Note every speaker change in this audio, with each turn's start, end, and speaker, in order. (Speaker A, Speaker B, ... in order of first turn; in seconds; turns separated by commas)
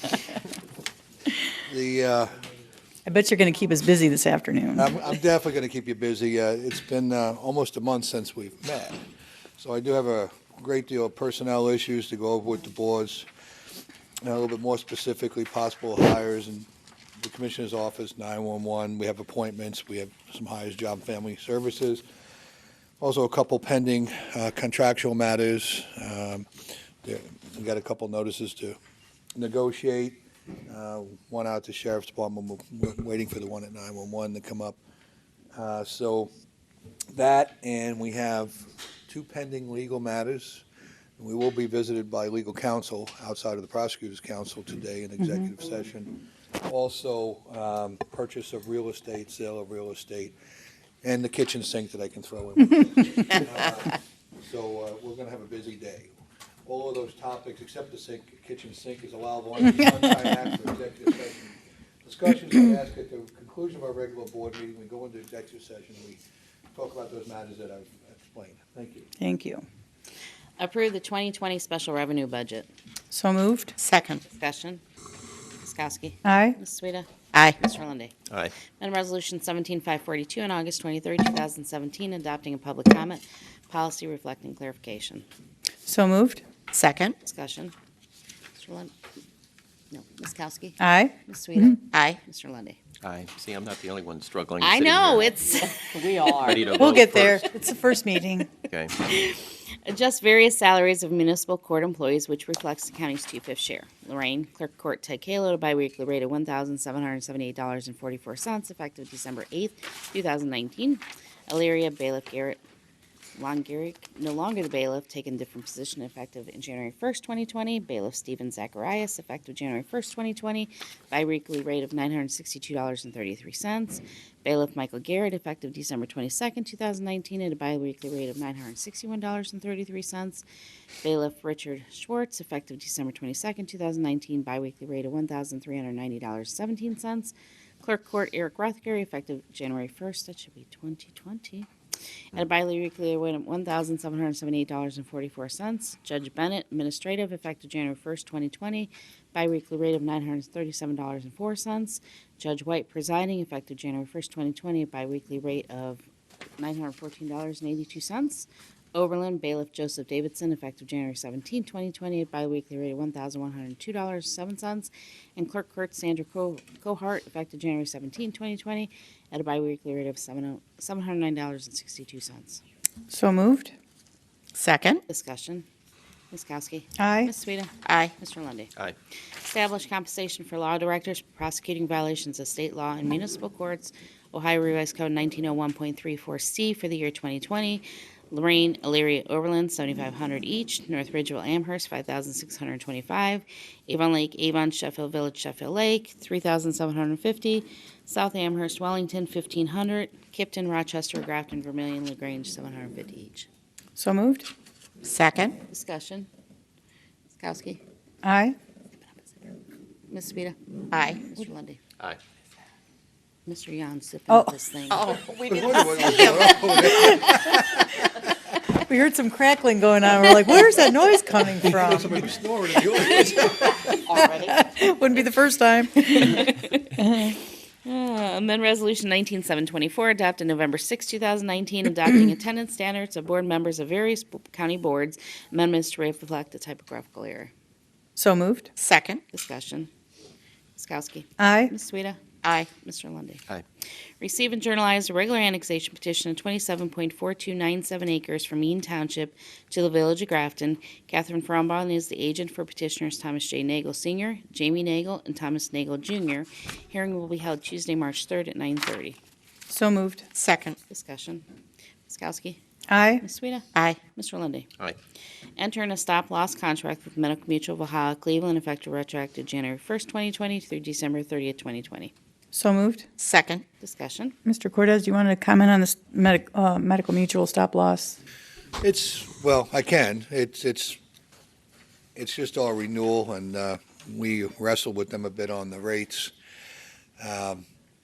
Speaker A: 1.6-2.3, Speaker B: 3.1-4.8, Speaker A: 4.8-9.0, Speaker A: 9.6-13.3, Speaker A: 14.2-16.7, Speaker A: 17.2-22.0, Speaker A: 23.0-26.5, Speaker A: 27.0-28.8, Speaker A: 29.4-34.8, Speaker A: 35.5-36.3, Speaker A: 37.1-40.6, Speaker A: 41.2-46.1, Speaker B: 45.2-45.5, Speaker A: 46.6-50.3, Speaker A: 51.0-56.1, Speaker A: 56.7-66.2, Speaker A: 66.7-69.1, Speaker B: 69.2-69.7, Speaker C: 70.6-72.7, Speaker B: 73.1-73.8, Speaker D: 73.8-74.2, Speaker C: 74.3-74.8, Speaker C: 75.6-78.1, Speaker B: 76.2-76.6, Speaker D: 77.3-77.6, Speaker E: 78.3-78.5, Speaker C: 78.7-85.2, Speaker B: 85.9-86.4, Speaker D: 86.7-87.2, Speaker C: 87.2-87.7, Speaker C: 88.6-88.9, Speaker C: 89.9-92.8, Speaker B: 90.8-91.8, Speaker D: 91.9-92.2, Speaker E: 93.0-95.4, Speaker C: 94.6-96.4, Speaker D: 96.0-96.3, Speaker E: 96.4-97.5, Speaker B: 96.7-98.5, Speaker E: 98.7-99.0, Speaker C: 99.0-112.6, Speaker C: 113.3-130.4, Speaker C: 131.0-141.7, Speaker C: 142.3-156.1, Speaker C: 156.6-172.6, Speaker B: 173.1-173.7, Speaker D: 174.6-175.0, Speaker C: 175.1-175.7, Speaker C: 176.3-178.7, Speaker B: 177.0-177.3, Speaker D: 177.8-178.1, Speaker C: 179.4-203.5, Speaker B: 204.0-204.5, Speaker D: 205.0-205.6, Speaker C: 205.7-206.3, Speaker C: 207.4-207.8, Speaker B: 208.2-208.6, Speaker C: 210.1-210.6, Speaker D: 210.9-211.3, Speaker C: 211.2-211.8, Speaker C: 213.5-215.1, Speaker B: 214.3-214.6, Speaker D: 214.9-217.1, Speaker A: 215.4-218.1, Speaker B: 218.9-222.3, Speaker A: 221.6-224.0, Speaker D: 224.1-224.6, Speaker B: 224.2-227.4, Speaker C: 226.2-237.5, Speaker B: 238.2-238.7, Speaker D: 238.8-239.2, Speaker C: 239.3-239.9, Speaker C: 240.8-243.4, Speaker B: 241.4-241.8, Speaker D: 242.4-242.7, Speaker C: 244.2-259.2, Speaker B: 259.7-260.3, Speaker D: 260.4-260.8, Speaker C: 260.9-261.4, Speaker C: 262.1-262.6, Speaker B: 262.9-263.2, Speaker C: 263.2-264.7, Speaker D: 263.8-264.0, Speaker C: 265.6-272.1, Speaker B: 272.5-273.1, Speaker D: 273.2-273.6, Speaker C: 273.8-274.4, Speaker B: 274.4-278.2, Speaker A: 278.8-281.0, Speaker A: 282.2-286.3, Speaker A: 287.2-287.6